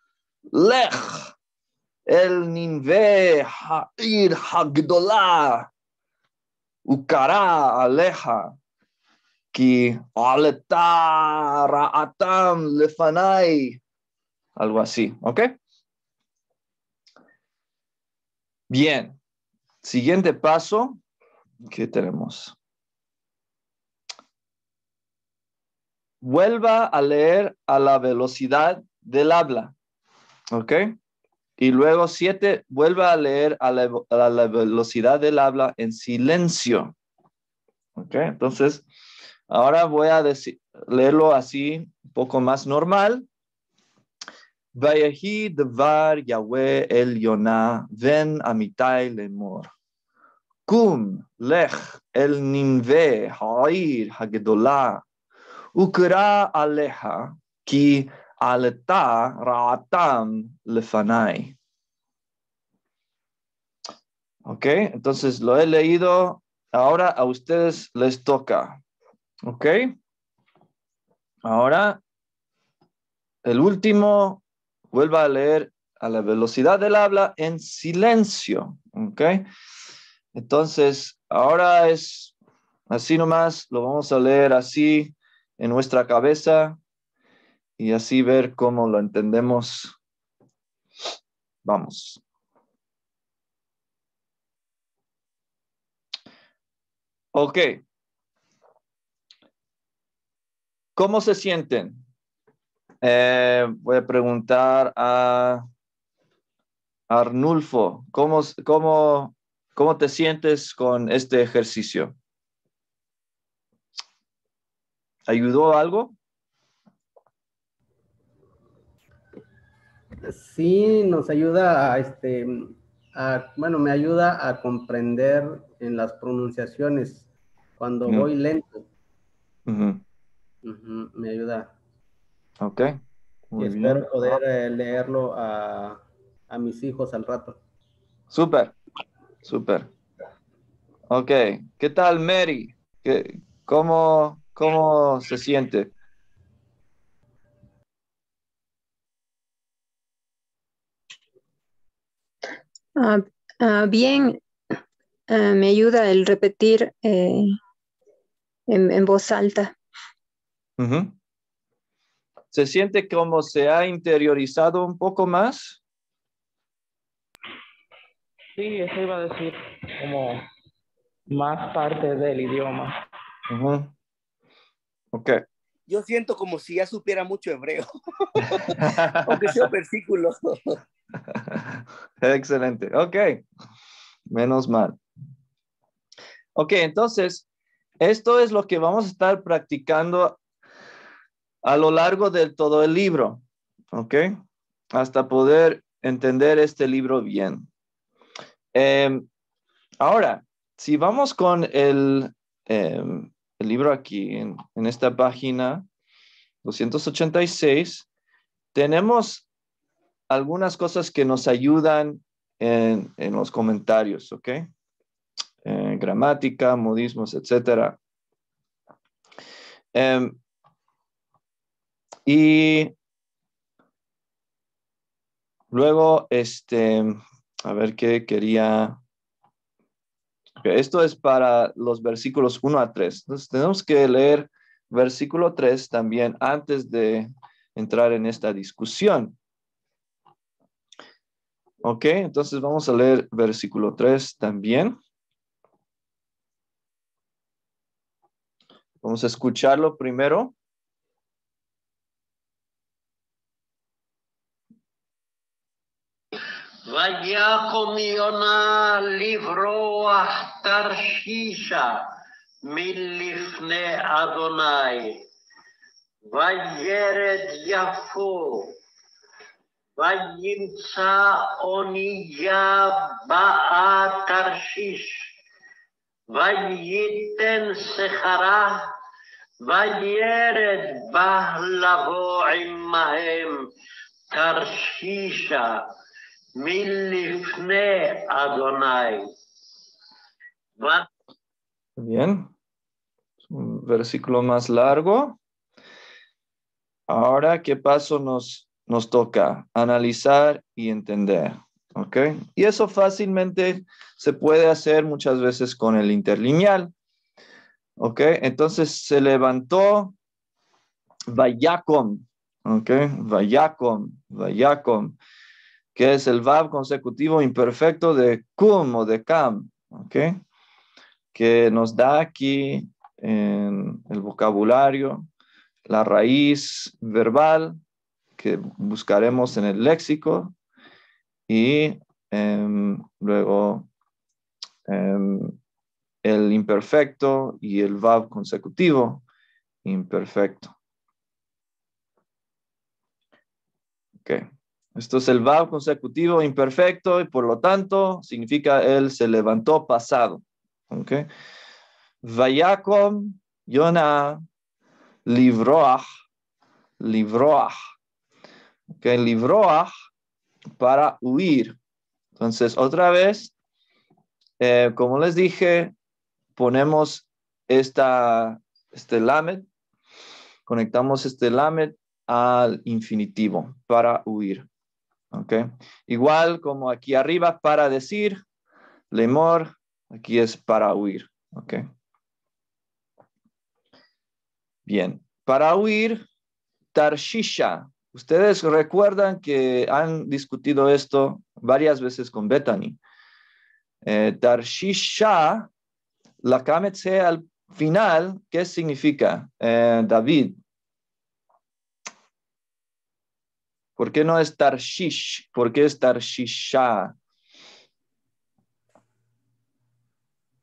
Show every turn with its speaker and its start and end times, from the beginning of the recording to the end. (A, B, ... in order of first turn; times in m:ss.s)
0:00.5-0:01.3 A
0:02.1-0:05.7 A
0:06.9-0:08.6 A
0:09.5-0:13.8 A
0:14.6-0:15.5 A
0:18.7-0:19.2 A
0:19.8-0:21.0 A
0:21.7-0:22.6 A
0:26.2-0:29.7 A
0:30.5-0:30.9 A
0:31.6-0:36.9 A
0:38.0-0:38.8 A
0:39.5-0:43.2 A
0:44.8-0:49.7 A
0:50.7-0:55.0 A
0:55.8-1:01.6 A
1:04.5-1:08.8 A
1:09.4-1:10.0 A
1:11.4-1:12.0 A
1:13.4-1:19.5 A
1:20.4-1:22.4 A
1:22.9-1:26.8 A
1:27.8-1:30.0 A
1:31.6-1:32.2 A
1:37.4-1:37.8 A
1:41.0-1:42.0 A
1:43.0-1:45.6 A
1:47.1-1:52.1 A
1:55.3-1:56.2 A
2:00.3-2:07.3 B
2:07.8-2:08.9 B
2:09.7-2:10.0 A
2:10.6-2:11.7 B
2:12.6-2:13.0 A
2:13.5-2:14.4 A
2:13.6-2:17.6 B
2:18.3-2:18.8 A
2:19.4-2:19.9 A
2:21.1-2:25.9 A
2:33.0-2:34.4 C
2:35.3-2:37.5 C
2:38.7-2:39.7 C
2:40.8-2:41.2 A
2:42.5-2:45.8 A
2:48.6-2:50.4 D
2:51.3-2:52.9 D
2:53.5-2:53.9 A
2:55.1-2:55.4 A
2:55.9-3:00.8 E
2:58.5-2:59.4 A
3:02.2-3:03.4 A
3:04.3-3:05.0 A
3:06.6-3:07.5 A
3:08.0-3:10.4 A
3:11.6-3:13.4 A
3:13.9-3:14.3 A
3:14.9-3:17.7 A
3:18.7-3:19.3 A
3:20.0-3:25.8 A
3:26.6-3:28.1 A
3:28.7-3:29.5 A
3:30.3-3:34.7 A
3:35.6-3:38.0 A
3:39.9-3:40.4 A
3:42.3-3:42.9 A
3:45.7-3:49.0 A
3:50.6-3:59.4 A
4:01.8-4:05.0 A
4:09.0-4:10.5 A
4:16.9-4:22.0 F
4:22.6-4:25.2 F
4:26.3-4:28.7 F
4:30.0-4:35.3 F
4:36.3-4:38.9 F
4:39.6-4:43.7 F
4:44.3-4:45.9 F
4:46.6-4:49.3 F
4:50.8-4:51.1 F
4:52.0-4:52.5 A
4:53.5-4:55.4 A
4:57.1-5:06.9 A
5:08.0-5:10.2 A
5:11.3-5:15.2 A
5:16.0-5:20.4 A
5:21.3-5:25.3 A
5:25.9-5:27.8 A
5:28.4-5:30.5 A
5:31.5-5:33.9 A
5:34.9-5:35.6 A
5:36.2-5:39.2 A
5:39.8-5:40.7 A
5:44.2-5:51.3 A
5:52.2-5:54.4 A
5:55.3-5:56.1 A
5:57.0-5:57.8 A
5:58.9-5:59.9 A
6:00.8-6:01.8 A
6:02.4-6:03.5 A
6:04.6-6:05.9 A
6:06.6-6:09.7 A
6:10.7-6:14.7 A
6:15.3-6:18.4 A
6:19.1-6:21.9 A
6:24.9-6:26.2 A
6:26.9-6:33.0 A
6:34.0-6:35.7 A
6:36.4-6:40.6 A
6:44.0-6:47.1 A